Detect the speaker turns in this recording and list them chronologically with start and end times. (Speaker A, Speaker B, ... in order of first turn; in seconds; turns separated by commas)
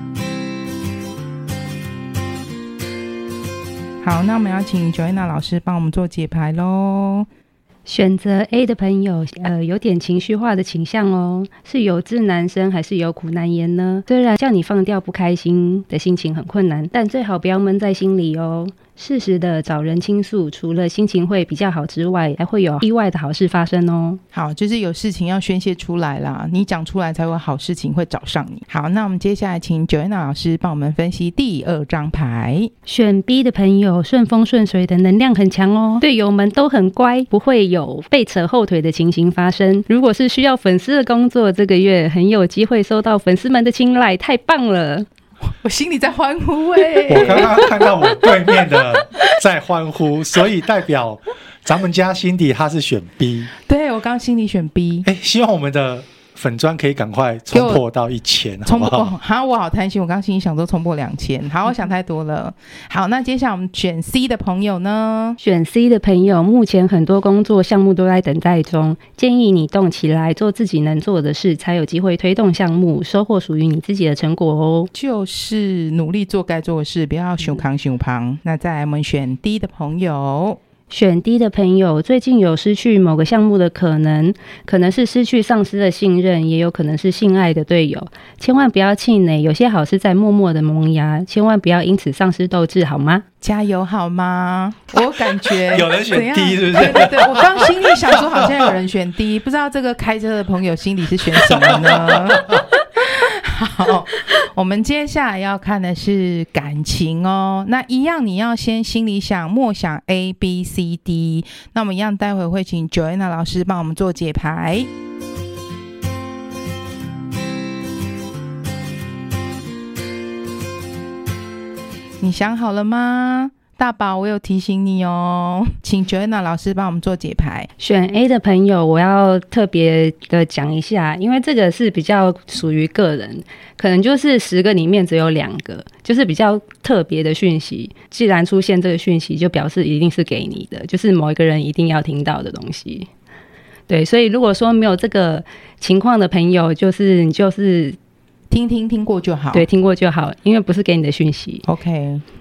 Speaker A: 4.0-7.3, Speaker B: 7.9-24.2, Speaker A: 24.3-32.7, Speaker B: 32.9-45.1, Speaker A: 45.6-47.7, Speaker C: 47.1-53.5, Speaker A: 53.7-55.1, Speaker C: 55.0-59.2, Speaker A: 57.5-57.8, Speaker A: 58.7-65.4, Speaker B: 65.4-74.9, Speaker A: 74.9-80.6, Speaker B: 80.9-93.2, Speaker A: 93.4-114.9, Speaker C: 95.5-98.7, Speaker C: 101.4-102.7, Speaker A: 122.2-127.7, Speaker B: 127.8-143.1, Speaker B: 143.9-148.0, Speaker A: 148.5-149.7, Speaker B: 149.5-151.7, Speaker A: 151.7-152.2